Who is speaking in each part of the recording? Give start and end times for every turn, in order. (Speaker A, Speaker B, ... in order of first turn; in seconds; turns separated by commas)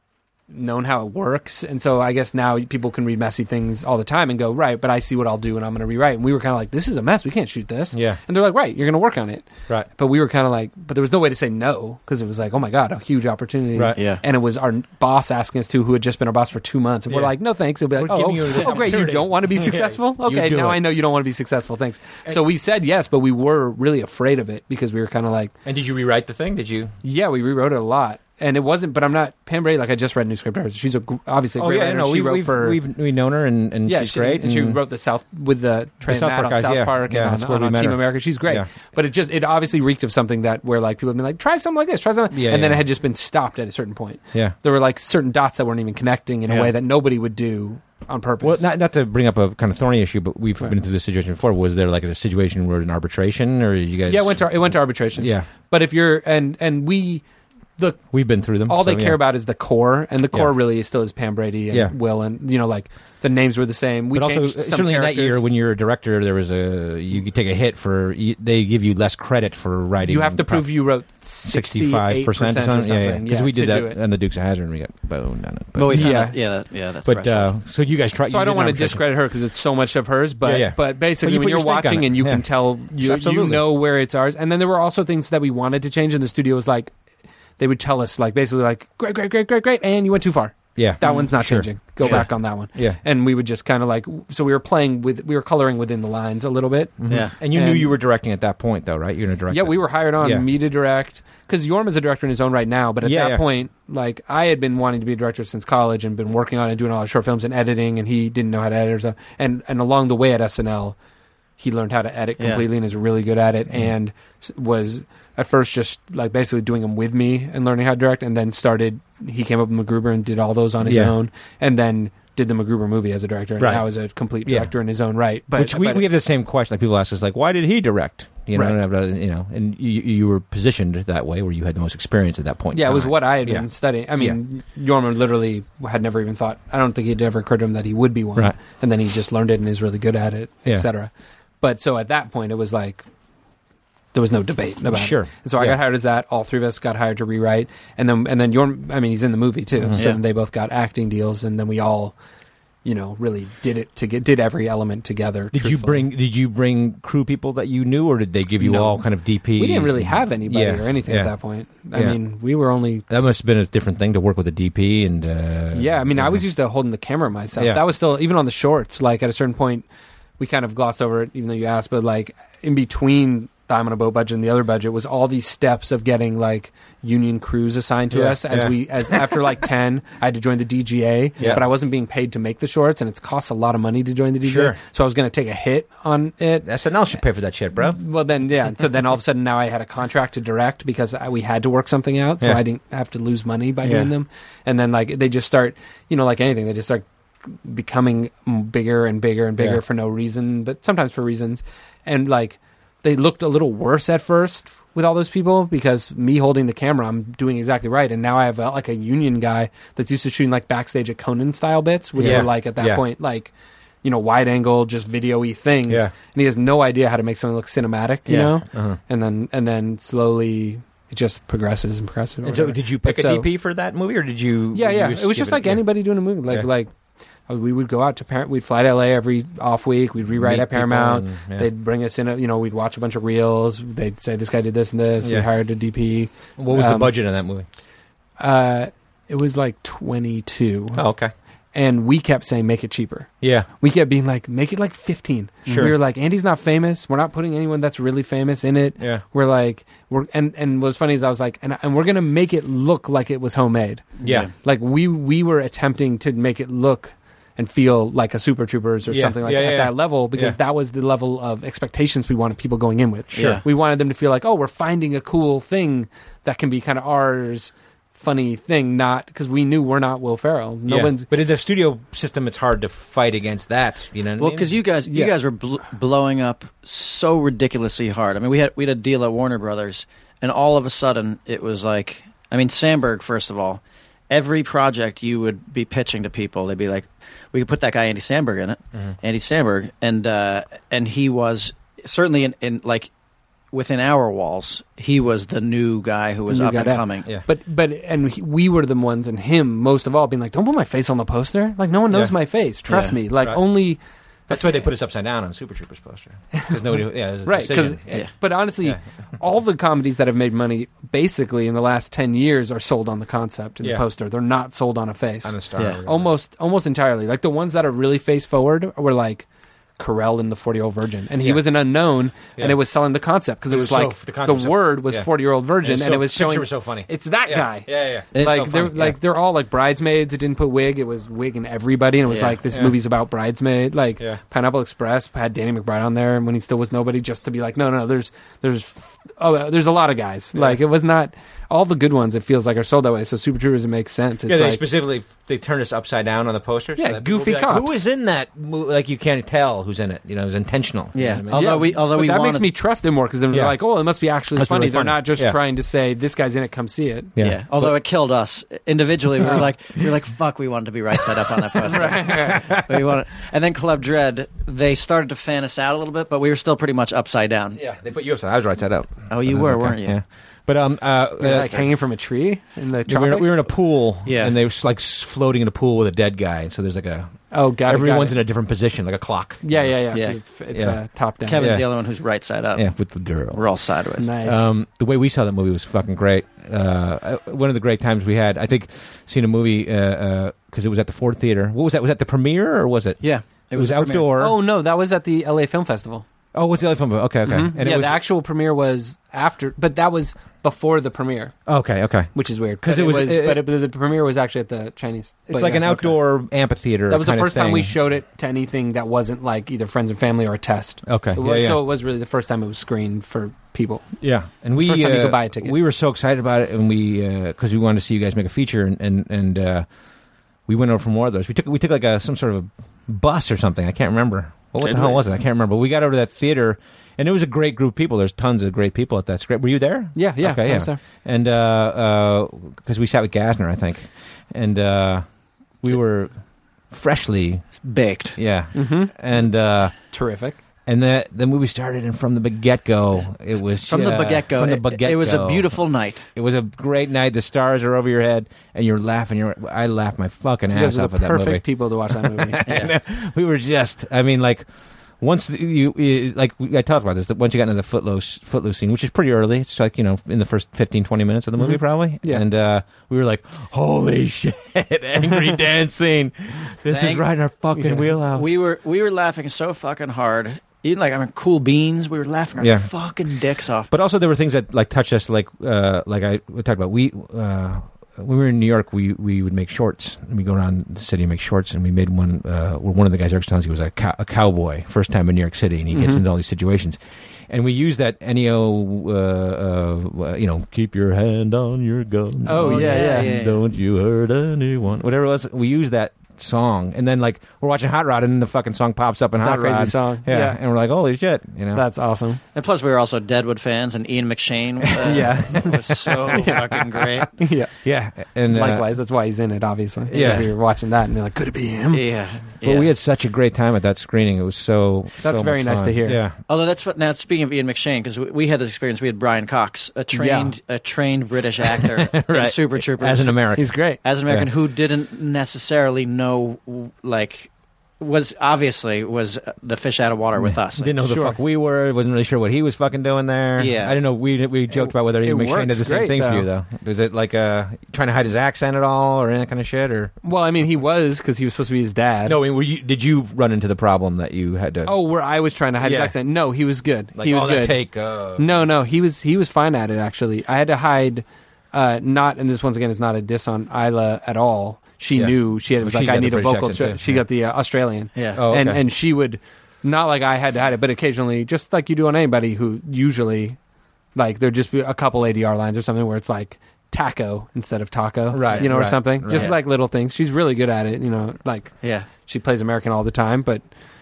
Speaker A: 0.5-25.6, Speaker B: 7.9-8.2, Speaker C: 13.9-14.2, Speaker B: 17.9-20.8, Speaker B: 25.6-26.9, Speaker A: 27.0-32.8, Speaker B: 31.6-34.8, Speaker A: 33.9-48.7, Speaker B: 36.1-38.7, Speaker B: 42.3-42.8, Speaker B: 46.5-46.7, Speaker B: 48.4-55.5, Speaker A: 54.1-57.2, Speaker B: 58.1-59.2, Speaker A: 58.7-65.4, Speaker B: 64.1-70.7, Speaker A: 70.0-74.0, Speaker B: 71.5-76.2, Speaker C: 75.8-77.5, Speaker A: 75.9-76.4, Speaker B: 77.1-79.0, Speaker A: 78.2-86.9, Speaker B: 80.4-82.4, Speaker B: 83.0-83.7, Speaker A: 87.6-97.9, Speaker B: 90.8-93.0, Speaker C: 91.0-91.3, Speaker B: 97.0-100.4, Speaker A: 99.5-111.0, Speaker B: 103.0-103.4, Speaker A: 111.6-126.1, Speaker C: 112.4-112.6, Speaker B: 120.8-121.1, Speaker B: 123.6-123.8, Speaker B: 125.5-133.7, Speaker A: 132.7-143.1, Speaker A: 144.1-152.2, Speaker B: 144.9-145.8, Speaker A: 152.8-156.1, Speaker B: 155.5-161.3, Speaker A: 158.6-159.0, Speaker A: 159.6-163.1, Speaker B: 163.1-166.4, Speaker A: 165.7-169.9, Speaker B: 167.6-167.8, Speaker A: 170.4-186.7, Speaker B: 178.1-179.2, Speaker B: 184.4-184.8, Speaker B: 186.6-188.0, Speaker A: 187.8-223.5, Speaker B: 193.8-194.1, Speaker B: 212.2-213.0, Speaker C: 218.3-218.5, Speaker B: 218.7-219.0, Speaker B: 222.4-225.8, Speaker A: 224.7-226.9, Speaker A: 227.5-237.1, Speaker B: 230.4-231.7, Speaker B: 236.6-237.7, Speaker A: 238.4-241.0, Speaker B: 240.9-241.3, Speaker A: 241.7-243.3, Speaker B: 243.4-243.7, Speaker A: 243.8-271.3, Speaker C: 245.7-245.9, Speaker B: 245.7-245.9, Speaker C: 254.2-254.5, Speaker B: 259.1-260.6, Speaker B: 263.3-263.6, Speaker C: 263.4-263.6, Speaker B: 270.9-274.8, Speaker C: 274.4-293.1, Speaker C: 293.7-297.2, Speaker A: 296.5-304.9, Speaker B: 304.5-308.2, Speaker A: 307.4-319.5, Speaker B: 315.4-316.3, Speaker A: 320.0-344.8, Speaker B: 323.7-325.3, Speaker B: 325.8-329.1, Speaker C: 328.3-328.7, Speaker C: 332.3-332.6, Speaker B: 344.5-351.9, Speaker A: 347.0-348.0, Speaker C: 351.1-352.6, Speaker A: 351.5-357.3, Speaker B: 354.6-355.6, Speaker B: 357.4-357.9, Speaker C: 357.4-367.8, Speaker A: 361.9-362.6, Speaker B: 362.0-362.8, Speaker B: 367.8-371.9, Speaker C: 369.3-370.2, Speaker A: 371.4-373.7, Speaker B: 373.1-379.9, Speaker C: 374.3-374.6, Speaker A: 377.5-378.4, Speaker A: 379.6-381.7, Speaker B: 380.7-381.0, Speaker C: 381.4-382.9, Speaker B: 381.6-381.9, Speaker B: 382.8-383.6, Speaker C: 383.5-384.3, Speaker A: 384.2-384.7, Speaker B: 384.4-393.2, Speaker C: 393.2-394.3, Speaker B: 393.7-394.5, Speaker A: 394.4-396.2, Speaker B: 396.5-398.2, Speaker A: 397.4-401.6, Speaker B: 401.7-402.3, Speaker A: 402.4-406.2, Speaker B: 402.8-403.7, Speaker B: 405.5-407.9, Speaker A: 407.1-414.2, Speaker B: 411.1-411.8, Speaker B: 414.2-419.9, Speaker A: 414.8-415.8, Speaker B: 420.7-435.2, Speaker C: 424.8-425.2, Speaker A: 430.1-431.0, Speaker B: 435.8-436.3, Speaker B: 436.9-437.8, Speaker C: 437.8-438.4, Speaker B: 438.4-440.0, Speaker A: 438.7-439.1, Speaker A: 440.1-440.6, Speaker B: 440.9-445.8, Speaker C: 443.9-446.3, Speaker B: 446.3-454.7, Speaker A: 450.7-452.7, Speaker C: 452.6-452.9, Speaker B: 455.2-468.5, Speaker A: 461.6-462.4, Speaker C: 466.9-467.2, Speaker A: 467.8-468.0, Speaker C: 468.1-473.9, Speaker B: 472.6-472.9, Speaker B: 473.9-487.0, Speaker A: 485.9-486.2, Speaker B: 487.5-501.9, Speaker A: 492.4-493.4, Speaker C: 492.6-493.6, Speaker A: 499.4-500.6, Speaker A: 501.8-502.4, Speaker C: 502.6-507.3, Speaker B: 504.9-507.1, Speaker A: 505.0-506.6, Speaker A: 507.4-507.7, Speaker B: 507.8-508.9, Speaker A: 508.5-512.0, Speaker C: 510.1-510.5, Speaker B: 510.1-510.5, Speaker C: 511.9-512.9, Speaker B: 512.6-516.4, Speaker A: 515.2-516.2, Speaker C: 516.5-523.4, Speaker A: 520.1-520.5, Speaker B: 522.1-523.7, Speaker A: 523.6-524.0, Speaker C: 524.0-531.0, Speaker B: 530.7-540.1, Speaker A: 531.1-531.4, Speaker C: 533.6-534.0, Speaker A: 534.7-536.5, Speaker A: 540.2-542.4, Speaker B: 542.3-544.9, Speaker A: 544.9-547.8, Speaker B: 545.8-546.1, Speaker B: 547.2-548.5, Speaker A: 548.4-563.6, Speaker B: 555.1-557.2, Speaker C: 558.2-558.4, Speaker B: 558.4-558.8, Speaker A: 564.1-573.6, Speaker B: 568.3-569.5, Speaker C: 571.8-572.1